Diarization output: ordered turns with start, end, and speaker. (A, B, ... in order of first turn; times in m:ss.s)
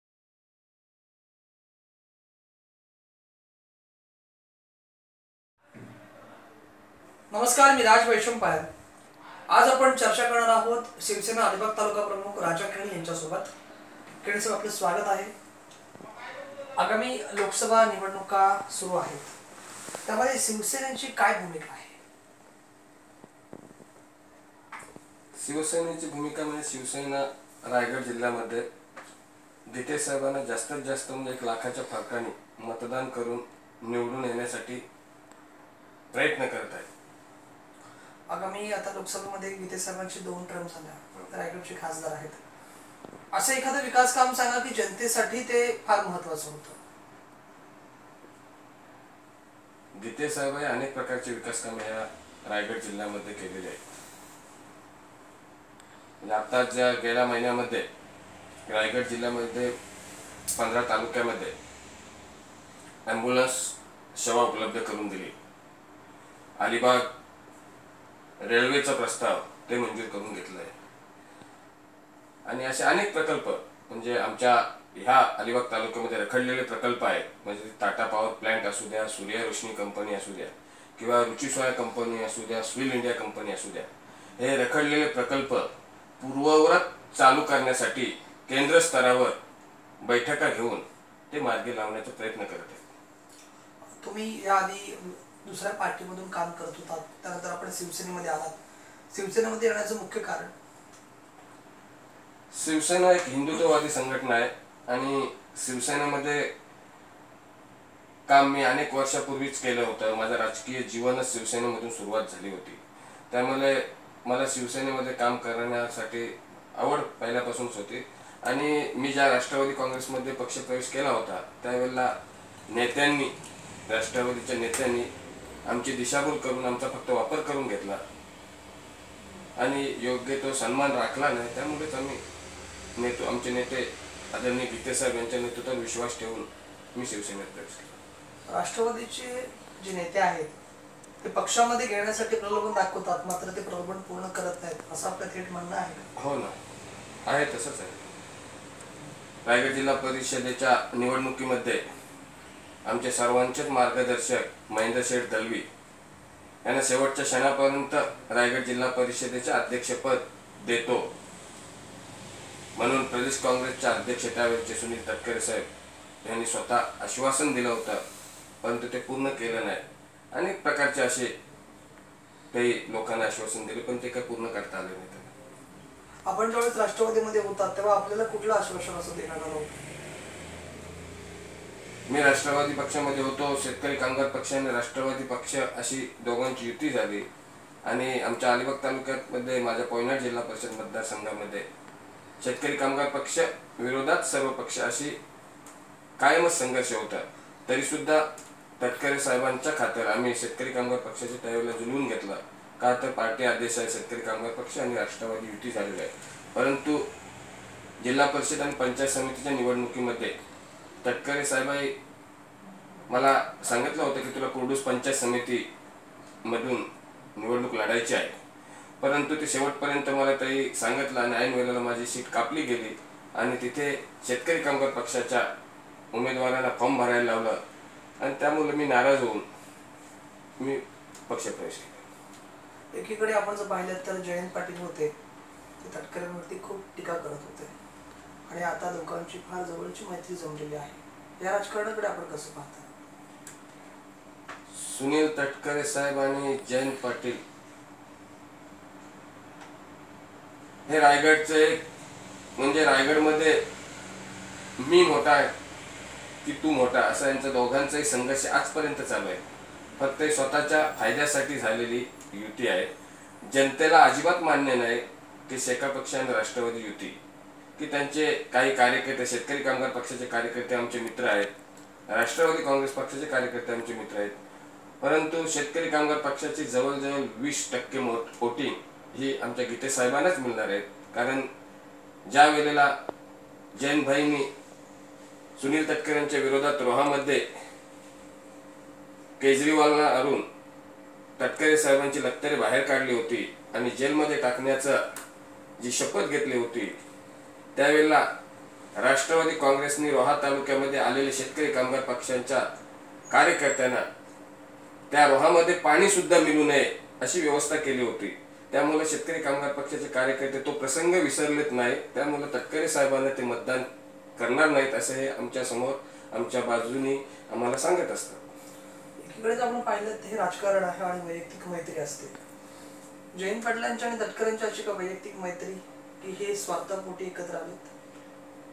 0:07.3-0:08.7 A
0:09.5-0:13.5 A
0:14.2-0:15.3 A
0:16.8-0:19.3 A
0:20.0-0:22.0 A
0:25.3-0:28.7 B
0:29.7-0:34.8 B
0:36.1-0:36.9 B
0:38.3-0:42.4 A
0:43.3-0:46.8 A
0:50.0-0:53.8 B
0:56.2-0:57.9 B
0:58.7-0:59.7 B
1:00.5-1:01.5 B
1:03.0-1:05.3 B
1:06.6-1:07.1 B
1:08.4-1:10.7 B
1:12.4-1:29.4 B
1:30.0-1:32.9 B
1:34.0-1:38.6 A
1:39.1-1:40.5 A
1:42.5-1:46.5 B
1:48.3-2:02.1 B
2:02.7-2:03.3 B
2:03.9-2:05.1 B
2:05.6-2:08.0 B
2:09.6-2:12.2 B
2:13.0-2:18.0 B
2:18.5-2:20.6 A
2:21.2-2:26.1 A
2:26.2-2:26.5 B
2:27.2-2:28.0 B
2:29.4-2:31.8 B
2:32.8-2:35.7 B
2:36.6-2:41.1 B
2:42.8-2:45.7 B
2:46.2-2:48.0 B
2:48.6-2:51.3 B
2:52.5-2:55.3 B
2:56.3-2:59.8 A
3:02.1-3:07.3 B
3:07.8-3:11.6 B
3:12.4-3:15.2 B
3:16.2-3:27.0 B
3:28.0-3:30.4 B
3:31.0-3:31.9 B
3:33.1-3:35.6 B
3:36.4-3:38.3 B
3:39.0-3:45.5 B
3:46.1-3:47.6 B
3:48.2-3:49.4 B
3:50.6-3:52.0 B
3:52.9-3:55.1 A
3:55.8-3:57.7 A
3:58.5-4:02.9 A
4:04.7-4:07.4 B
4:10.8-4:11.8 B
4:12.6-4:13.6 B
4:14.8-4:15.5 B
4:16.4-4:19.4 B
4:20.0-4:22.9 B
4:23.4-4:27.2 B
4:27.8-4:31.5 B
4:32.1-4:34.3 B
4:35.0-4:41.5 B
4:42.3-4:42.9 B
4:43.8-4:44.5 B
4:45.6-4:47.4 B
4:49.4-4:50.4 B
4:51.4-4:55.0 B
4:55.8-4:57.0 B
4:57.7-4:58.3 B
4:59.0-5:02.6 B
5:03.3-5:04.0 B
5:05.1-5:13.8 B
5:14.4-5:18.4 B
5:19.2-5:22.3 A
5:23.3-5:27.9 A